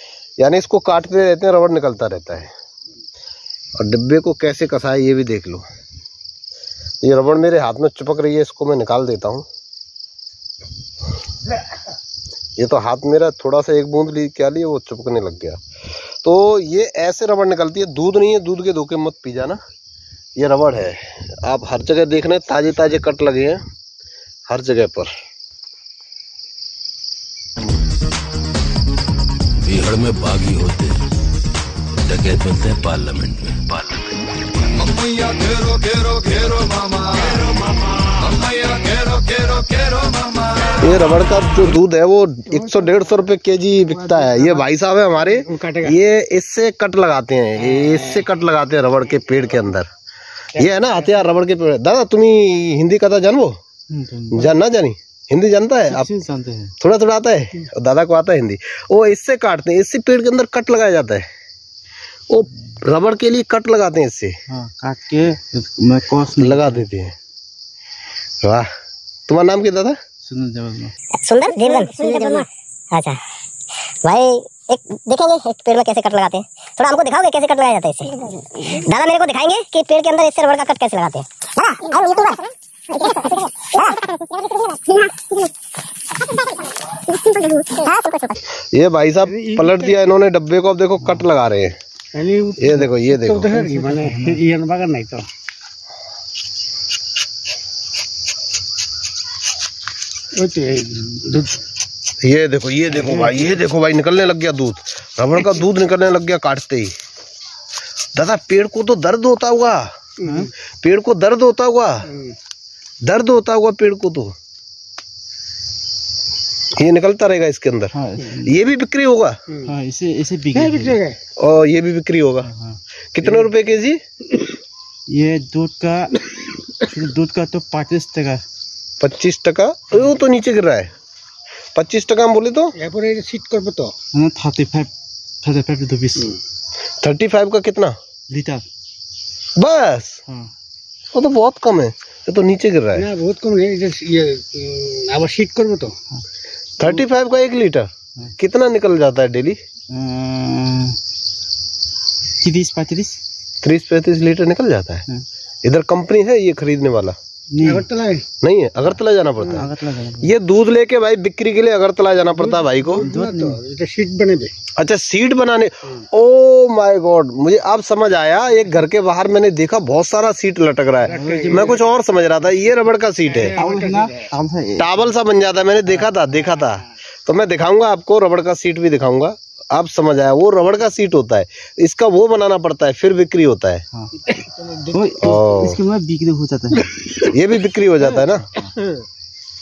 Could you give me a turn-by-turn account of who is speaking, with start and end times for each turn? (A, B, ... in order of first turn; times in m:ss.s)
0:00.4-0:02.5 A
0:03.8-0:05.6 A
0:07.0-0:09.4 A
0:12.6-0:15.6 A
0:16.2-0:19.6 A
0:20.4-0:23.6 A
0:24.5-0:25.1 A
0:29.6-0:31.0 B
0:31.9-0:37.3 B
0:38.1-0:40.1 B
0:40.7-0:49.9 A
0:42.5-0:43.1 C
0:43.9-0:44.7 C
0:45.2-0:46.0 C
0:47.6-0:48.2 C
0:50.6-0:51.2 C
0:50.6-0:53.6 A
0:53.9-0:54.6 D
0:54.3-0:56.1 A
0:55.9-0:56.7 D
0:56.8-1:01.3 A
1:02.3-1:04.3 A
1:04.5-1:06.8 D
1:06.4-1:07.1 A
1:08.4-1:08.7 A
1:09.3-1:10.0 A
1:10.2-1:10.9 D
1:11.2-1:13.2 E
1:14.0-1:25.5 E
1:27.1-1:28.4 E
1:28.7-1:31.8 A
1:29.2-1:30.0 C
1:32.1-1:35.3 C
1:32.6-1:33.7 A
1:33.6-1:34.4 D
1:40.3-1:41.6 C
1:42.2-1:46.9 A
1:42.9-1:43.3 C
1:48.1-1:49.9 A
1:50.2-1:50.5 C
1:50.2-1:50.5 D
1:50.8-1:52.1 A
1:53.0-1:54.3 A
1:56.7-1:59.4 A
1:57.9-1:58.6 D
1:59.6-2:01.0 D
2:00.5-2:01.2 C
2:01.4-2:02.5 A
2:02.4-2:03.4 D
2:03.1-2:04.0 A
2:05.1-2:06.2 D
2:06.8-2:08.4 D
2:09.0-2:10.9 A
2:11.7-2:12.7 A
2:12.8-2:13.9 C
2:14.1-2:16.4 D
2:17.0-2:18.0 A
2:18.3-2:18.6 D
2:19.6-2:20.2 A
2:21.1-2:23.1 A
2:22.9-2:25.9 C
2:26.8-2:29.6 A
2:26.8-2:27.0 D
2:29.9-2:31.0 D
2:32.4-2:33.2 D
2:33.6-2:35.0 A
2:35.6-2:37.2 A
2:37.5-2:37.9 D
2:37.6-2:38.2 C
2:38.4-2:39.7 A
2:39.5-2:40.4 D
2:40.2-2:43.0 A
2:42.4-2:44.5 C
2:43.0-2:43.6 D
2:44.8-2:53.6 A
2:51.1-2:51.6 C
2:51.1-2:51.8 D
2:53.3-2:54.2 C
2:53.4-2:55.1 D
2:54.8-3:03.8 A
2:55.8-2:56.1 D
3:03.9-3:04.3 D
3:04.4-3:04.8 C
3:04.8-3:07.0 D
3:05.2-3:05.8 A
3:07.1-3:08.6 A
3:08.2-3:08.8 D